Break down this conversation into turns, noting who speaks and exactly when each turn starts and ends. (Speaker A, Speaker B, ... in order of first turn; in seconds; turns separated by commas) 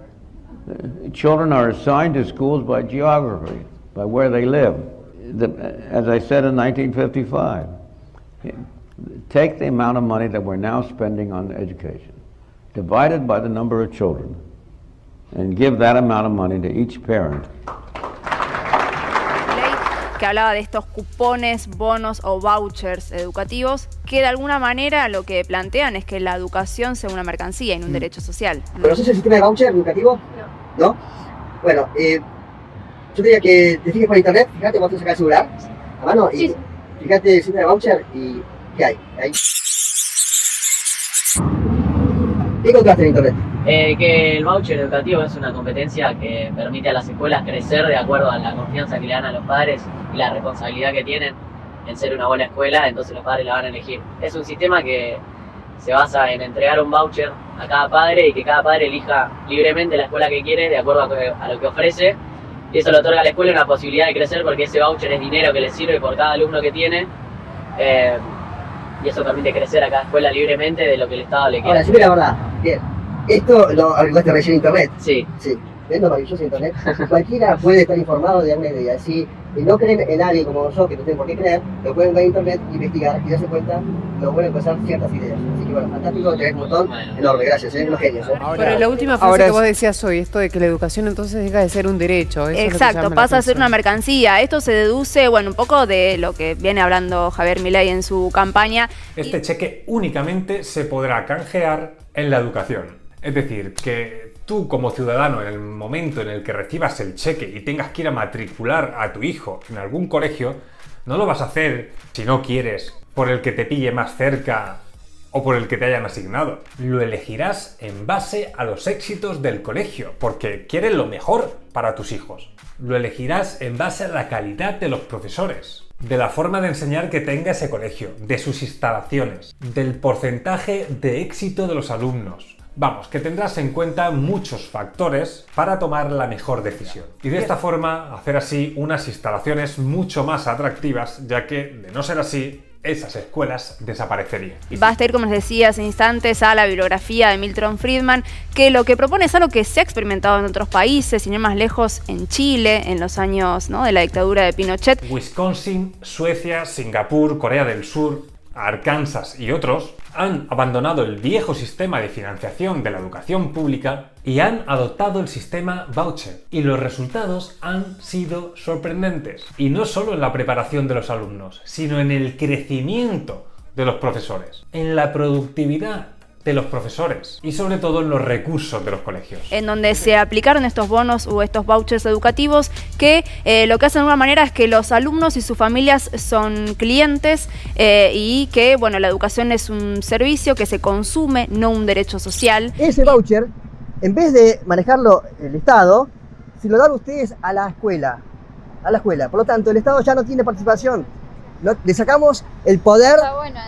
Speaker A: 0.7-7.7, Speaker A: 8.4-12.2, Speaker A: 12.7-14.4, Speaker A: 15.3-17.5, Speaker B: 19.5-29.0, Speaker C: 28.8-30.2, Speaker C: 31.6-32.2, Speaker C: 33.1-39.3, Speaker C: 42.6-43.4, Speaker D: 43.6-55.2, Speaker D: 55.8-62.2, Speaker D: 62.7-67.1, Speaker D: 67.8-68.3, Speaker D: 69.0-72.1, Speaker C: 71.6-88.6, Speaker D: 75.0-75.3, Speaker D: 86.1-87.5, Speaker E: 88.4-93.7, Speaker D: 88.6-88.8, Speaker B: 92.5-99.4, Speaker F: 99.2-144.9, Speaker B: 144.7-155.0, Speaker F: 155.1-179.5, Speaker B: 179.5-193.1, Speaker C: 192.8-193.5, Speaker C: 194.0-198.2, Speaker C: 198.8-201.1, Speaker C: 201.6-203.3